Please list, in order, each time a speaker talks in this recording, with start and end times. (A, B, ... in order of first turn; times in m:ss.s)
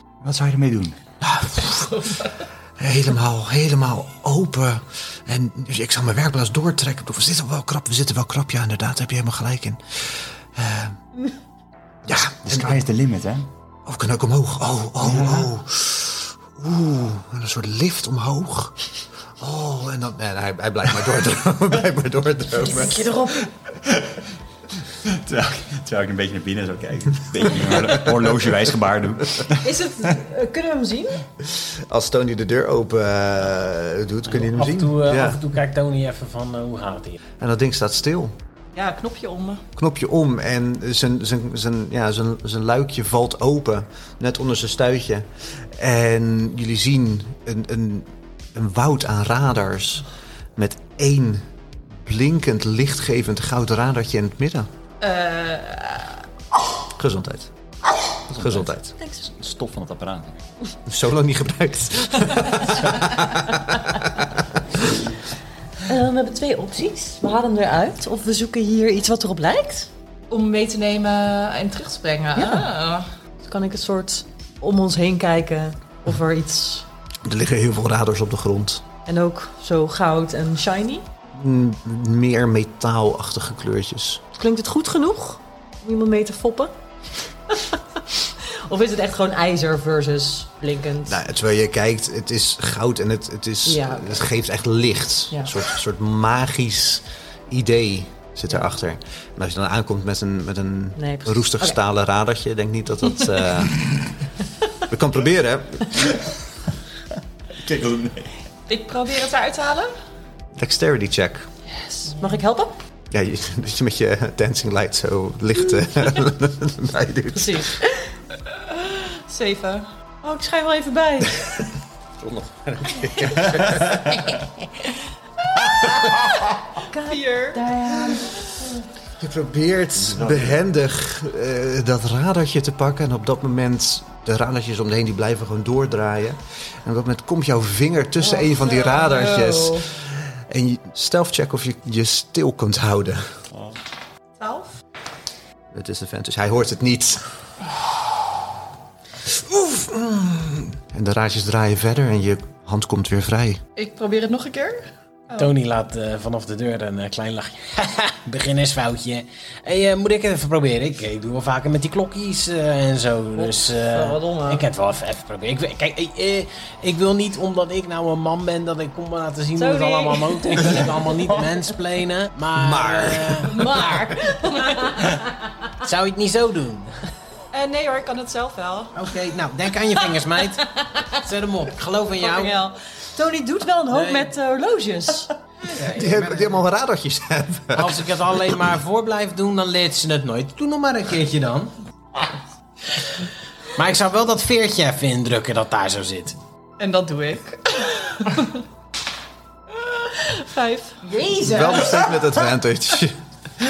0:00.2-0:01.0 A
0:01.2-0:11.0 B
0:12.0-0:12.8 B
0:12.1-0:13.5 A
0:13.9-0:18.8 B
0:15.0-0:15.5 A
0:19.4-0:23.3 B
0:22.6-0:23.5 C
0:23.8-0:24.2 A
0:25.0-0:29.8 A
0:29.6-0:31.2 C
0:31.5-0:35.4 B
0:34.3-0:37.2 D
0:37.4-0:38.4 B
0:38.7-0:39.6 E
0:39.8-0:54.7 B
0:55.0-0:56.2 E
0:56.9-0:57.5 B
0:58.3-0:58.7 A
0:58.4-0:59.0 B
0:59.0-0:59.3 C
0:59.3-1:00.4 A
1:00.9-1:04.9 B
1:05.8-1:09.9 C
1:10.3-1:13.1 E
1:12.3-1:12.7 C
1:13.4-1:16.9 C
1:17.2-1:18.8 B
1:19.1-1:21.1 C
1:21.3-1:24.2 B
1:24.4-1:26.7 C
1:28.4-1:31.2 C
1:31.1-1:43.8 B
1:33.7-1:34.2 C
1:41.0-1:41.8 C
1:44.9-1:46.1 B
1:47.6-1:48.3 A
1:48.7-1:49.9 E
1:50.6-1:51.5 B
1:52.0-1:52.8 C
1:53.1-1:57.8 B
1:57.4-1:57.9 C
1:58.7-1:59.9 E
2:00.2-2:01.4 C
2:02.2-2:04.3 B
2:06.8-2:08.5 C
2:07.1-2:07.6 E
2:09.2-2:23.3 B
2:10.0-2:10.6 A
2:18.7-2:19.8 C
2:24.4-2:24.7 E
2:25.7-2:27.8 B
2:29.2-2:33.6 B
2:33.8-2:35.5 E
2:35.4-2:53.7 D
2:43.4-2:44.7 C
2:49.6-2:50.9 C
2:52.5-2:54.0 B
2:53.5-2:55.3 C
2:55.8-2:56.9 D
2:57.5-2:59.0 E
2:58.9-3:02.6 D
3:02.2-3:05.3 C
3:03.9-3:04.3 D
3:05.6-3:06.6 D
3:05.9-3:08.6 B
3:07.7-3:11.7 D
3:13.8-3:16.4 D
3:16.8-3:18.6 E
3:19.8-3:21.0 E
3:21.0-3:22.1 C
3:21.4-3:23.2 B